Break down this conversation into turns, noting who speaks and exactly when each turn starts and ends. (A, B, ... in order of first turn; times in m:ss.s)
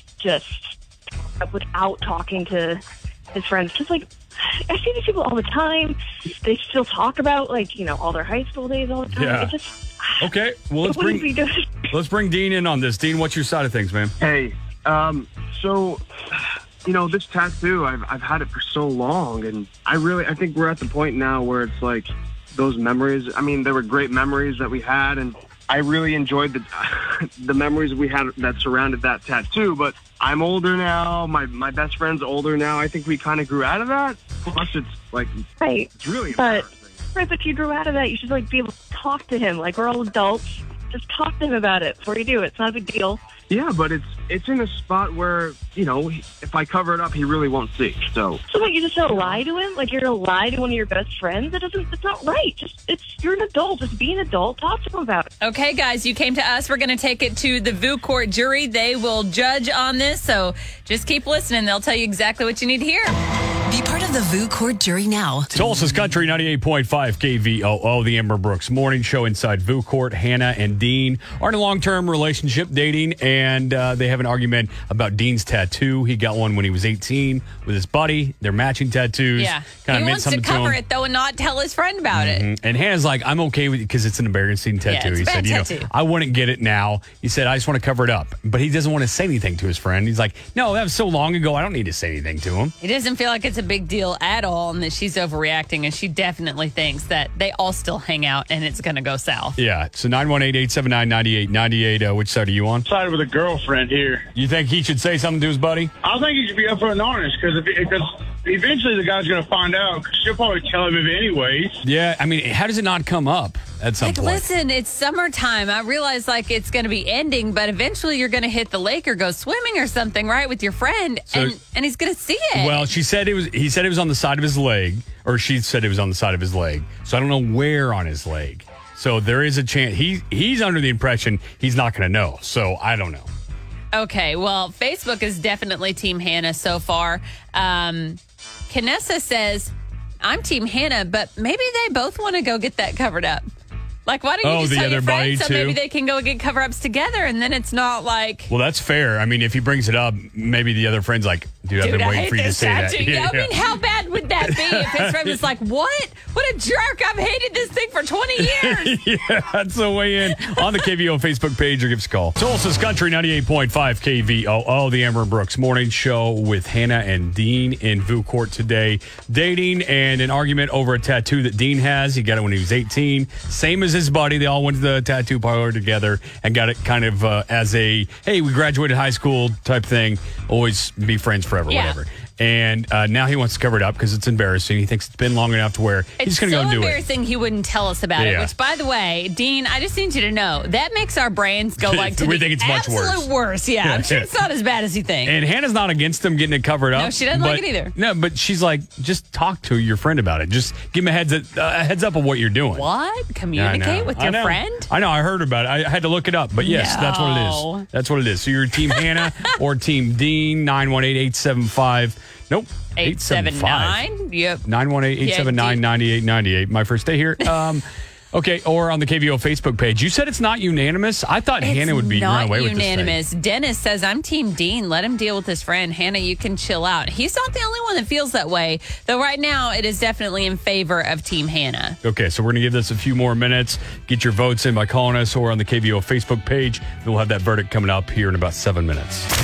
0:00.2-0:00.8 A
0:01.4-0:02.8 A
0:03.3-0:04.1 A
0:04.7-0:10.3 A
0:09.1-0:09.6 B
0:10.2-0:11.3 B
0:10.8-0:11.7 A
0:11.9-0:14.1 B
0:14.2-0:37.0 C
0:35.6-0:43.2 A
0:43.5-0:48.4 C
0:48.5-0:55.3 A
0:49.1-0:49.4 C
0:55.4-1:03.1 D
1:03.7-1:05.7 E
1:05.5-1:20.8 B
1:19.4-1:22.5 D
1:22.1-1:32.8 B
1:24.8-1:25.9 D
1:32.8-1:39.6 D
1:39.6-1:42.9 B
1:42.9-1:44.3 F
1:44.3-1:45.9 B
1:46.0-1:51.8 F
1:51.8-1:54.5 B
1:54.0-2:02.9 D
2:01.3-2:01.6 B
2:02.5-2:13.3 B
2:13.9-2:23.4 D
2:24.1-2:28.5 D
2:24.4-2:25.8 B
2:28.5-2:33.5 B
2:31.8-2:39.0 D
2:34.5-2:35.4 B
2:38.4-3:07.0 B
2:40.4-2:40.7 D
3:01.7-3:02.0 D
3:06.2-3:15.3 D
3:08.2-3:08.5 B
3:11.8-3:13.3 B
3:13.8-3:14.3 B
3:15.2-3:22.9 B
3:16.9-3:18.0 D
3:22.7-3:24.9 D
3:23.6-3:34.0 B
3:26.6-3:27.9 D
3:28.9-3:29.5 D
3:33.0-3:34.6 D
3:34.6-3:43.2 B
3:35.2-3:35.8 D
3:41.6-3:52.0 D
3:52.0-3:59.3 B